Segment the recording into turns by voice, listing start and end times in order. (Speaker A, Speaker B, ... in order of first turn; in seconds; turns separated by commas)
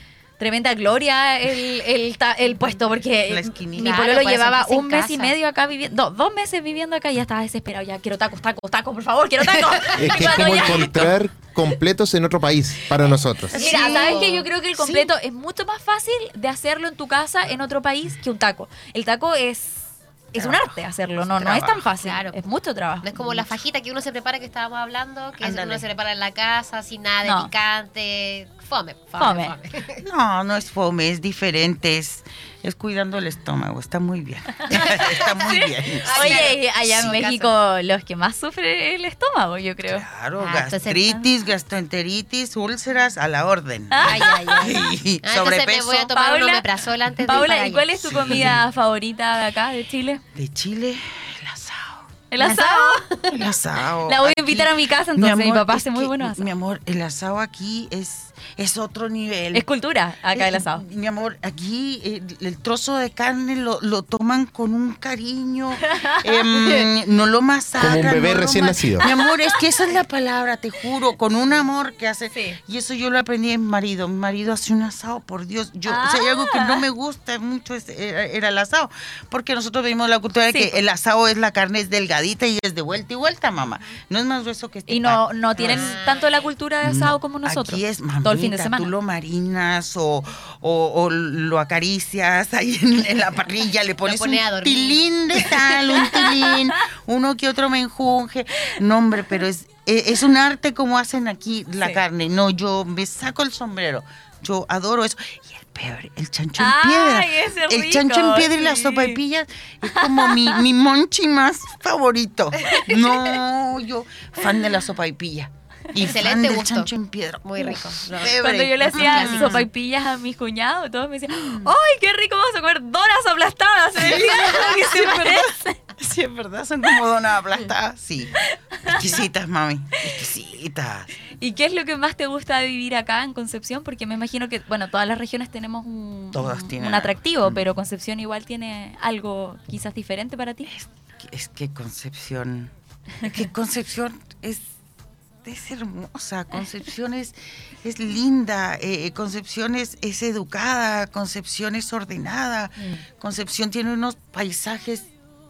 Speaker A: 0.4-11.2, Speaker B: 3.2-4.2, Speaker C: 3.8-5.3, Speaker C: 9.6-10.1, Speaker D: 9.9-13.6, Speaker B: 13.5-14.3, Speaker C: 13.5-15.1, Speaker A: 13.5-23.5, Speaker B: 20.3-21.8, Speaker C: 21.9-22.4, Speaker C: 23.0-30.0, Speaker B: 25.4-25.8, Speaker A: 27.2-27.5, Speaker A: 29.2-29.5, Speaker B: 30.0-37.2, Speaker A: 34.6-40.0, Speaker C: 34.8-35.2, Speaker C: 36.0-37.5, Speaker B: 39.8-46.1, Speaker C: 40.4-41.0, Speaker A: 43.9-44.7, Speaker C: 44.0-48.5, Speaker A: 46.1-46.6, Speaker A: 47.2-50.2, Speaker B: 47.4-48.6, Speaker B: 50.3-52.1, Speaker A: 52.3-53.1, Speaker C: 52.4-53.4, Speaker B: 53.2-59.7, Speaker A: 54.0-56.5, Speaker A: 59.5-60.8, Speaker B: 60.3-86.0, Speaker A: 65.8-66.3, Speaker D: 67.8-69.0, Speaker A: 69.2-69.5, Speaker A: 72.3-72.6, Speaker A: 75.8-76.8, Speaker A: 80.5-80.8, Speaker A: 84.9-88.9, Speaker C: 85.5-86.5, Speaker B: 86.8-119.7, Speaker C: 94.0-95.0, Speaker A: 106.6-109.2, Speaker A: 109.9-110.6, Speaker C: 112.6-113.0, Speaker C: 116.0-116.9, Speaker C: 117.4-119.6, Speaker A: 118.3-125.8, Speaker B: 121.3-121.7, Speaker B: 123.9-131.1, Speaker C: 124.3-125.1, Speaker A: 128.4-129.1, Speaker A: 131.4-140.7, Speaker B: 136.3-137.7, Speaker B: 140.7-144.7, Speaker B: 145.4-155.1, Speaker A: 152.8-153.0